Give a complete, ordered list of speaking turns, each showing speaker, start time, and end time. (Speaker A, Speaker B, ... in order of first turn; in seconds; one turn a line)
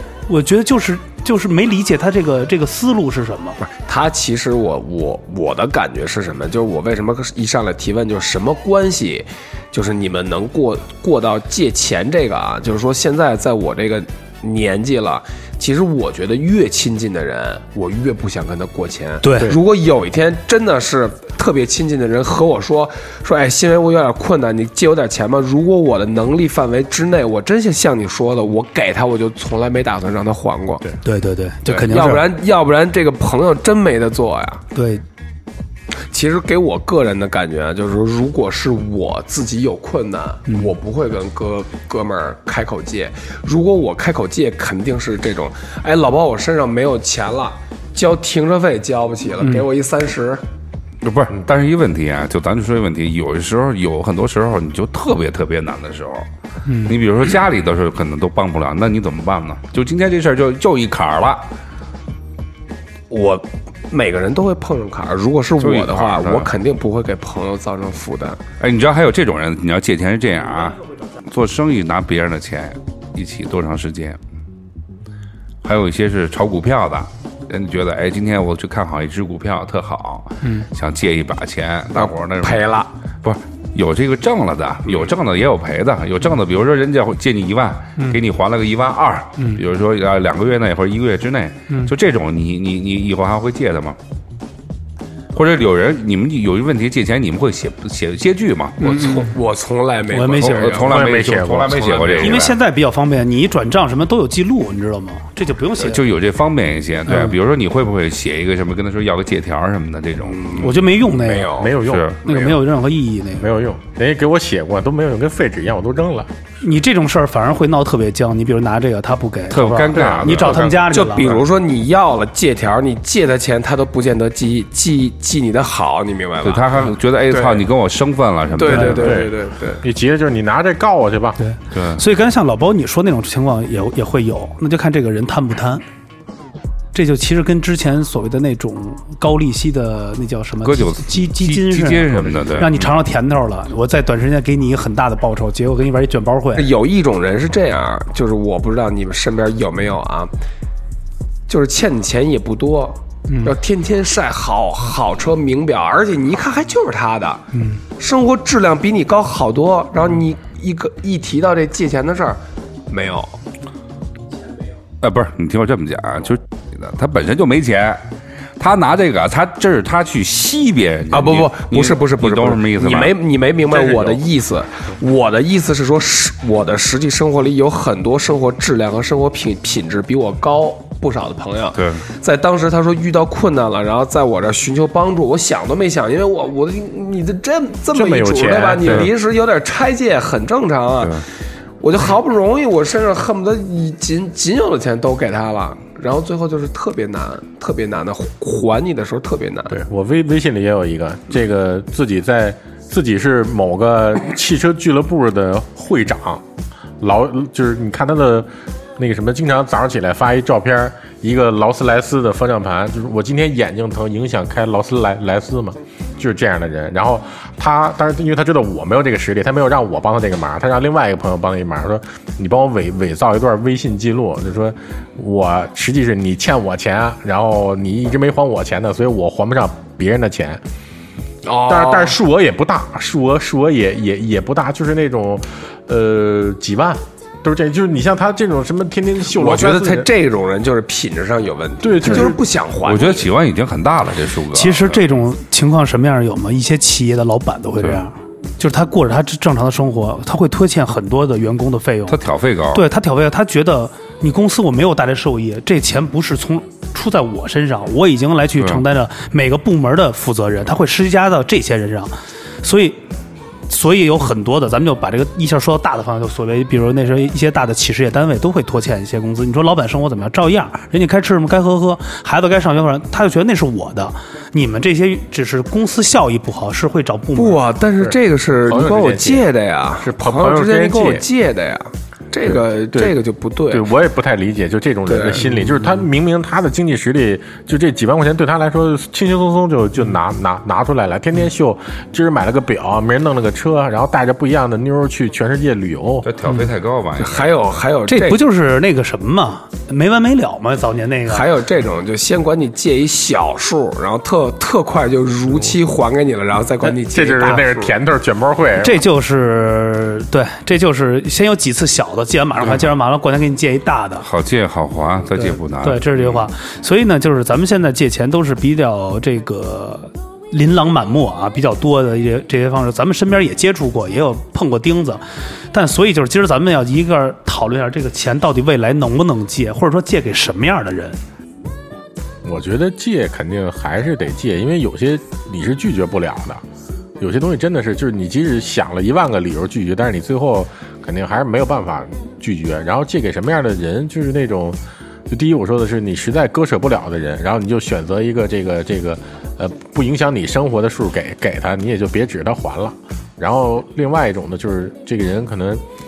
Speaker A: 0.3-3.6
Speaker B: 3.6-30.9
Speaker A: 19.2-19.6
Speaker A: 31.0-32.3
Speaker B: 31.7-34.6
Speaker A: 34.7-35.0
Speaker B: 36.1-50.4
Speaker C: 51.0-56.3
Speaker A: 56.7-56.9
Speaker C: 56.9-61.5
Speaker B: 63.1-68.4
Speaker C: 65.6-66.5
Speaker C: 68.6-74.2
Speaker C: 75.6-82.6
Speaker A: 80.4-80.7
Speaker B: 82.0-82.9
Speaker C: 83.2-94.0
Speaker C: 95.3-98.8
Speaker B: 98.8-101.1
Speaker A: 98.8-99.3
Speaker A: 100.1-100.8
Speaker C: 100.2-102.5
Speaker D: 100.8-102.5
Speaker A: 102.2-106.0
Speaker C: 105.8-110.8
Speaker A: 107.1-107.4
Speaker B: 110.3-111.8
Speaker A: 110.6-111.6
Speaker D: 111.6-112.5
Speaker C: 111.8-112.2
Speaker A: 112.2-113.5
Speaker D: 113.4-116.3
Speaker A: 116.6-121.3
Speaker C: 119.5-121.3
Speaker D: 120.0-120.8
Speaker B: 120.9-127.7
Speaker C: 126.4-129.2
Speaker B: 128.6-129.8
Speaker D: 128.9-131.4
Speaker A: 131.4-135.8
Speaker C: 131.7-132.0
Speaker A: 136.9-146.7
Speaker C: 140.6-142.9
Speaker B: 146.6-150.3
Speaker B: 151.5-157.4
Speaker A: 153.3-153.6
Speaker A: 157.5-157.8
Speaker B: 158.0-163.3
Speaker C: 165.0-168.1
Speaker C: 168.6-173.2
Speaker B: 171.1-191.2
Speaker C: 181.8-182.1
Speaker D: 187.9-189.1
Speaker B: 191.8-199.8
Speaker D: 199.7-206.4
Speaker D: 207.0-230.6
Speaker B: 231.4-232.2
Speaker D: 231.7-240.1
Speaker B: 239.3-243.3
Speaker D: 241.8-242.4
Speaker C: 242.8-245.0
Speaker A: 244.5-252.2
Speaker C: 252.1-252.8
Speaker A: 252.7-263.0
Speaker C: 258.6-258.8
Speaker A: 263.7-277.6
Speaker B: 277.4-283.9
Speaker D: 278.0-279.5
Speaker D: 280.0-281.2
Speaker D: 282.4-283.2
Speaker D: 283.7-296.3
Speaker B: 285.1-285.9
Speaker C: 296.2-297.6
Speaker B: 297.2-298.4
Speaker A: 298.1-301.5
Speaker B: 301.3-307.9
Speaker D: 306.8-309.0
Speaker A: 308.8-314.3
Speaker C: 314.2-316.5
Speaker A: 315.4-331.2
Speaker D: 332.4-336.6
Speaker D: 337.2-355.8